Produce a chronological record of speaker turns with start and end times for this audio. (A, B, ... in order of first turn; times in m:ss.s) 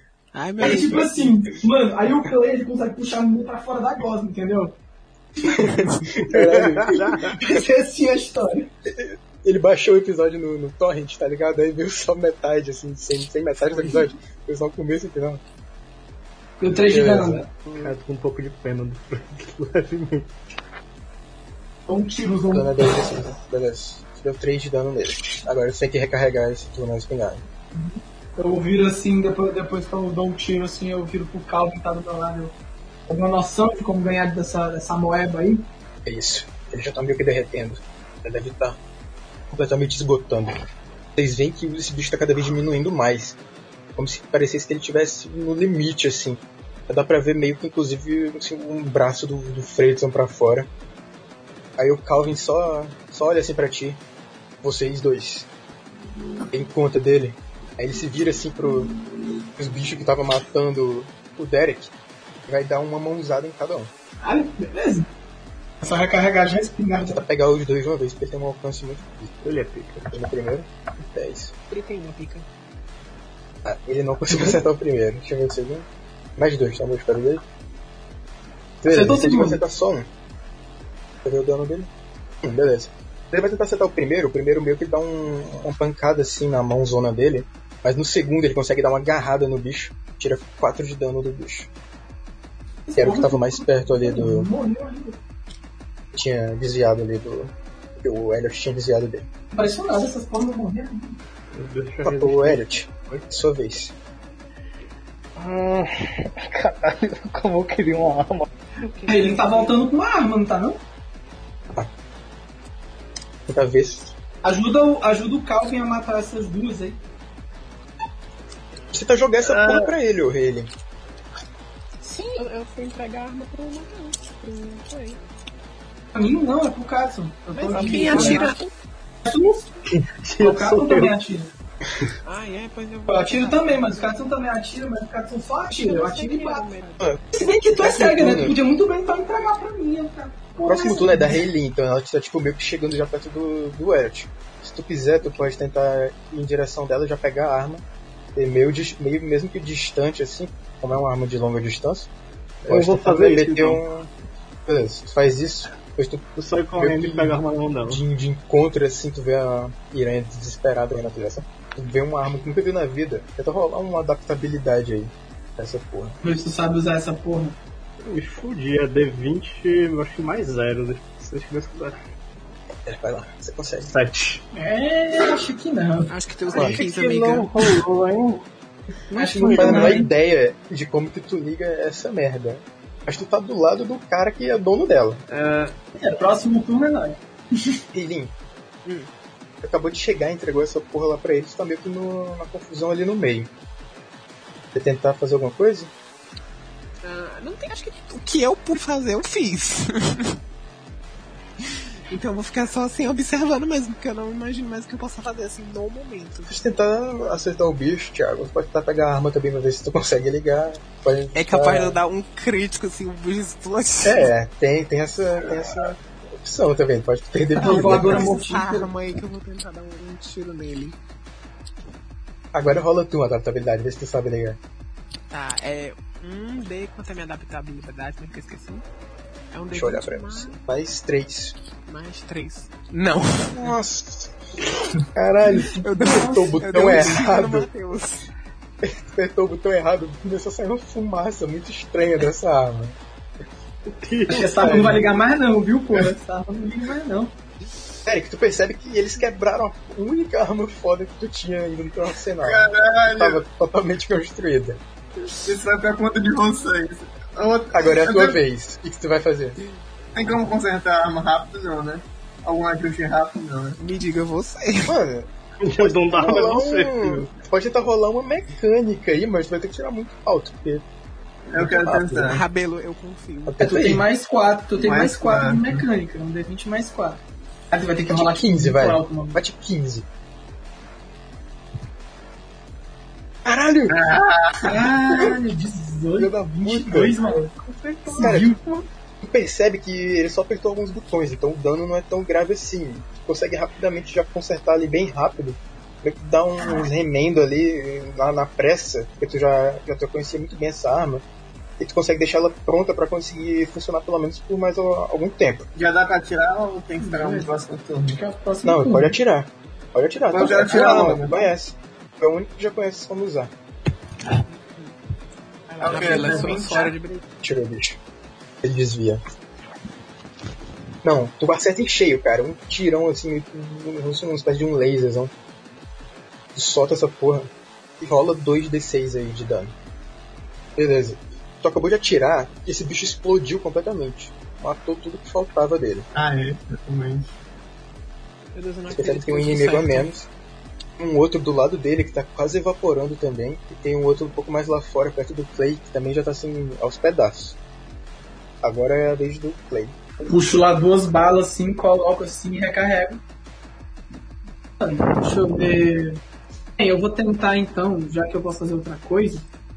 0:00.3-0:01.3 A
0:00.6-0:01.0 B
0:00.6-0:04.8 C
0:05.4-0:05.8 C
0:05.6-0:07.4 B
0:07.2-0:08.7 C
0:08.8-0:15.4 B
0:16.6-0:17.5 C
0:16.8-0:17.9 B
0:17.8-0:20.4 D
0:21.9-0:22.8 C
0:22.5-0:27.4 B
0:27.7-0:32.5 C
0:33.1-0:35.7 C
0:36.0-0:38.8 B
0:39.5-0:40.6 B
0:41.2-0:43.4 B
0:44.0-0:50.7 B
0:51.8-0:54.0 B
0:54.6-0:55.5 B
0:56.5-0:58.9 B
0:59.6-1:01.9 B
1:02.5-1:03.9 B
1:04.2-1:05.1 C
1:05.8-1:07.2 C
1:07.0-1:09.3 B
1:09.4-1:10.1 D
1:10.1-1:11.5 B
1:11.7-1:12.4 A
1:13.6-1:17.4 B
1:14.3-1:14.6 C
1:18.8-1:20.1 B
1:18.9-1:19.6 C
1:21.2-1:21.9 B
1:22.4-1:31.7 B
1:32.9-1:35.2 C
1:33.0-1:34.5 B
1:36.1-1:39.3 B
1:39.5-1:41.2 C
1:41.5-1:43.2 D
1:42.0-1:43.9 B
1:45.4-1:49.1 D
1:49.0-1:49.7 A
1:49.1-1:50.8 C
1:53.5-1:54.1 B
1:54.4-1:57.0 C
1:58.9-2:00.7 B
1:59.5-1:59.9 D
2:02.0-2:05.2 A
2:06.1-2:08.5 C
2:07.5-2:08.7 A
2:07.8-2:08.4 D
2:09.2-2:09.7 C
2:10.2-2:11.1 D
2:10.4-2:11.5 C
2:12.2-2:14.2 A
2:13.1-2:16.7 C
2:15.7-2:17.1 A
2:17.3-2:21.4 C
2:17.8-2:18.5 B
2:20.6-2:27.8 B
2:28.4-2:32.1 B
2:32.6-2:34.1 B
2:32.7-2:33.8 D
2:34.6-2:46.2 B
2:36.4-2:38.0 D
2:46.2-2:47.6 C
2:48.0-2:52.0 D
2:52.8-2:53.9 B
2:53.9-2:54.4 D
2:54.5-2:56.5 C
2:56.1-2:57.7 A
2:56.5-2:56.8 B
2:56.5-2:58.5 D
2:59.1-3:00.0 D
2:59.2-3:00.1 C
2:59.3-3:05.2 B
3:05.3-3:05.7 D
3:06.0-3:07.8 C
3:07.9-3:08.3 B
3:09.6-3:13.5 B
3:14.7-3:15.9 B
3:17.0-3:20.4 A
3:21.6-3:26.6 A
3:26.5-3:32.0 B
3:31.3-3:34.3 A
3:34.0-3:38.3 B
3:37.6-3:38.9 C
3:37.6-3:41.0 A
3:42.5-3:44.6 B
3:45.3-3:48.8 A
3:49.5-3:50.6 A
3:49.7-3:51.5 B
3:51.8-3:53.8 A
3:53.5-3:54.3 B
3:55.1-3:57.7 B
3:55.4-3:56.7 C
3:55.8-3:58.2 A
3:58.8-4:03.0 B
4:03.9-4:05.0 D
4:04.3-4:07.3 C
4:04.6-4:05.0 B
4:08.0-4:14.8 B
4:12.4-4:13.4 E
4:15.4-4:18.4 E
4:17.7-4:19.6 B
4:20.1-4:23.8 E
4:23.8-4:24.9 A
4:24.8-4:30.8 B
4:25.6-4:27.3 D
4:31.5-4:32.4 E
4:31.6-4:32.4 B
4:32.2-4:33.6 A
4:33.5-4:34.0 B
4:33.6-4:39.4 C
4:34.8-4:35.8 E
4:38.1-4:40.1 B
4:43.4-4:44.0 B
4:43.9-4:45.3 E
4:44.6-4:47.5 C
4:46.2-4:47.2 B
4:47.7-4:48.4 A
4:48.1-4:48.6 C
4:48.2-4:48.5 B
4:49.2-5:01.2 B
5:01.8-5:05.7 B
5:05.7-5:08.2 E
5:07.0-5:07.5 C
5:08.1-5:09.1 C
5:08.6-5:13.5 B
5:10.3-5:11.5 E
5:14.5-5:14.9 A
5:15.7-5:17.2 A
5:15.8-5:16.9 C
5:15.8-5:16.9 E
5:17.4-5:18.0 B
5:18.6-5:19.2 B
5:21.0-5:25.3 B
5:26.5-5:29.7 B
5:30.8-5:36.1 B
5:36.1-5:37.3 E
5:38.5-5:40.1 A
5:38.9-5:40.3 B
5:41.0-5:47.6 B
5:48.6-5:49.9 B
5:50.2-5:53.2 C
5:54.8-5:56.2 C
5:56.8-5:59.5 C